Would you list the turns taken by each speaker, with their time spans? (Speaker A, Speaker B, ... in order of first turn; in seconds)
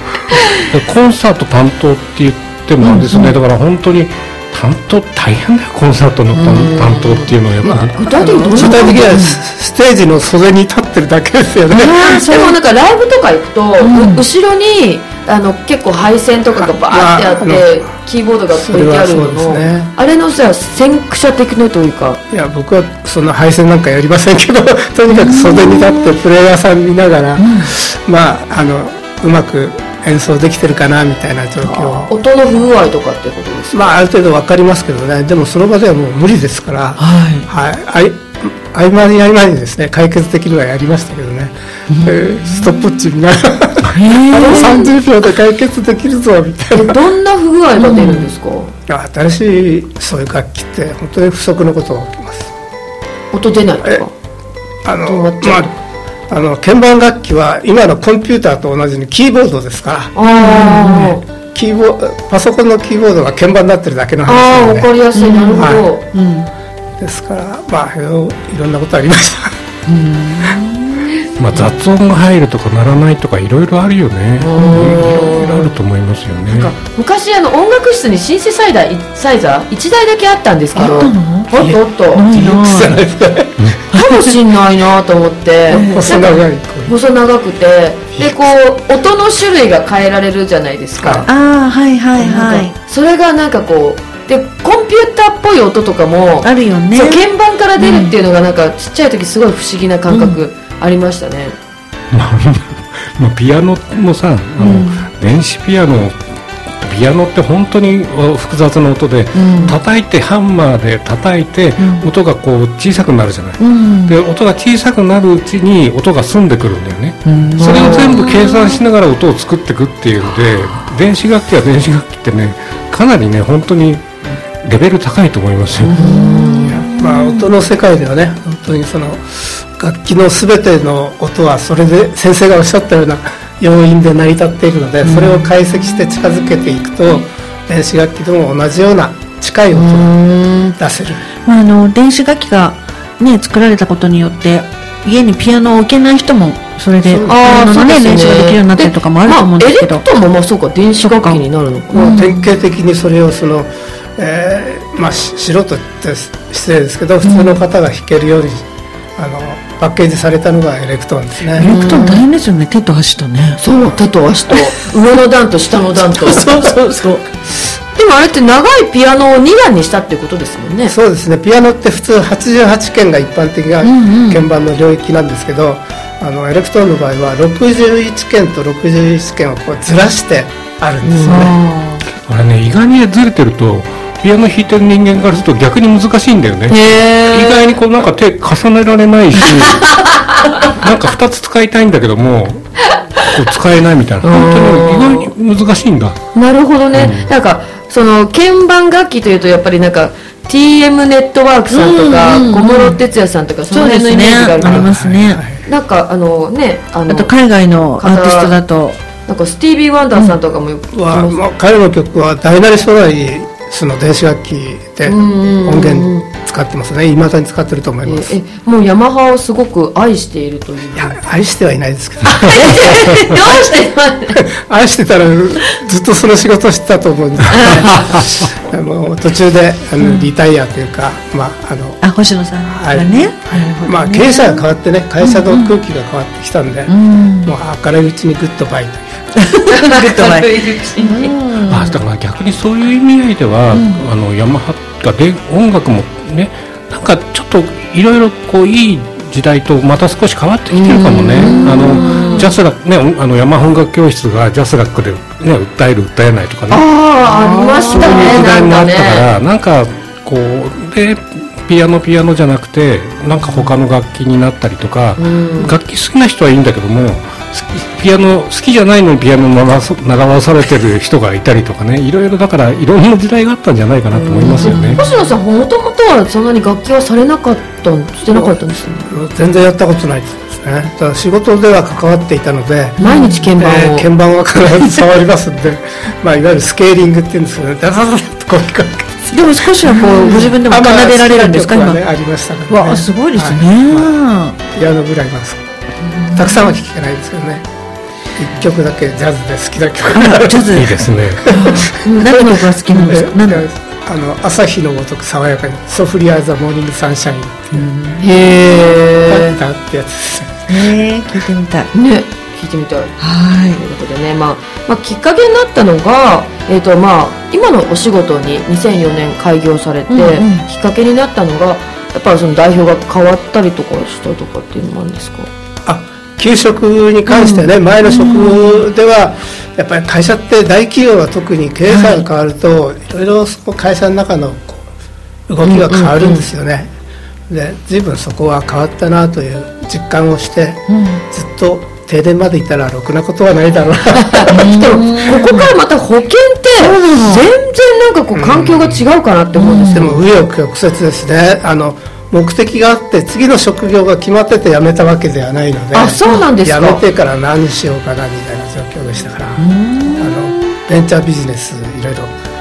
Speaker A: 0.3-0.6, 2.8-3.3, 8.6-9.4, 11.7-12.6, 13.8-14.2, 25.1-26.1, 27.4-27.7, 37.0-37.5, 41.9-42.6, 43.8-44.8, 47.8-48.3, 60.4-61.2, 65.1-66.5, 69.8-71.1, 80.8-83.0, 83.9-84.3, 85.7-86.1, 91.3-92.7, 96.4-97.2, 97.8-98.1, 100.1-100.4, 104.6-105.1, 109.3-109.8, 111.8-112.1, 113.6-114.2, 117.2-118.6, 125.8-127.5, 135.0-135.5, 141.4-150.0, 151.0-151.4, 151.9-152.4, 157.2-157.6, 161.6-163.6, 166.2-167.2, 173.8-174.4, 181.2-182.0, 201.7-203.0, 203.7-205.4, 207.1-209.0, 230.0-230.3, 232.0-234.6, 235.2-235.7, 236.9-237.5, 239.3-242.0, 243.7-244.0, 251.3-252.5, 257.3-258.3, 274.4-275.1, 283.0-283.4, 289.3-292.0, 292.7-294.6, 296.0-296.7, 300.1-303.6, 307.7-308.2, 310.7-311.9, 313.2-313.8, 320.1-320.6, 328.0-328.8, 331.9-332.2, 340.9-341.2, 344.5-345.7, 346.8-347.4, 349.5-350.2, 359.6-360.4
Speaker B: 0.7-8.0, 71.4-76.7, 102.1-106.2, 106.8-126.0, 182.2-190.1, 190.6-196.2, 196.9-197.3, 241.7-256.9, 257.9-275.0, 300.7-301.5
Speaker C: 6.3-9.2, 12.0-22.2, 31.6-33.9, 44.4-44.9, 46.7-48.7, 53.3-54.1, 55.0-55.7, 60.1-61.2, 64.2-66.0, 74.4-75.7, 76.5-82.3, 83.9-91.3, 92.2-101.5, 117.6-118.3, 126.0-126.8, 139.7-140.8, 147.2-152.2, 161.6-162.2, 163.6-166.7, 167.9-170.9, 181.0-181.4, 186.7-187.8, 189.6-190.1, 194.2-195.3, 196.3-204.9, 205.7-207.3, 208.0-208.6, 209.3-211.4, 215.1-216.3, 218.0-221.2, 222.2-224.4, 227.5-228.2, 239.7-241.3, 250.7-252.5, 256.7-259.3, 265.2-265.7, 274.1-279.1, 283.0-284.1, 302.0-302.6, 308.2-309.5, 311.9-313.2, 313.7-325.5, 327.3-327.7, 335.6-336.5, 344.1-350.2, 355.9-357.0
Speaker D: 7.7-12.2, 16.6-17.9, 18.5-19.9, 22.3-32.1, 33.7-47.0, 48.9-52.5, 54.8-55.7, 56.3-60.1, 61.4-64.9, 65.6-65.9, 67.0-69.5, 80.8-83.6, 85.7-86.9, 88.2-88.5, 91.0-91.3, 126.7-140.1, 140.8-141.2, 147.0-147.4, 151.9-158.6, 159.2-161.7, 166.3-166.7, 170.9-181.5, 204.6-205.6, 210.9-218.3, 220.9-223.4, 224.3-232.0, 232.7-239.3, 279.1-283.0, 283.6-294.1, 294.6-295.6, 296.3-297.6, 298.4-300.7, 301.5-307.9, 308.7-310.6, 325.9-334.9, 335.5-336.9, 337.5-344.6, 348.3-349.0, 349.9-362.3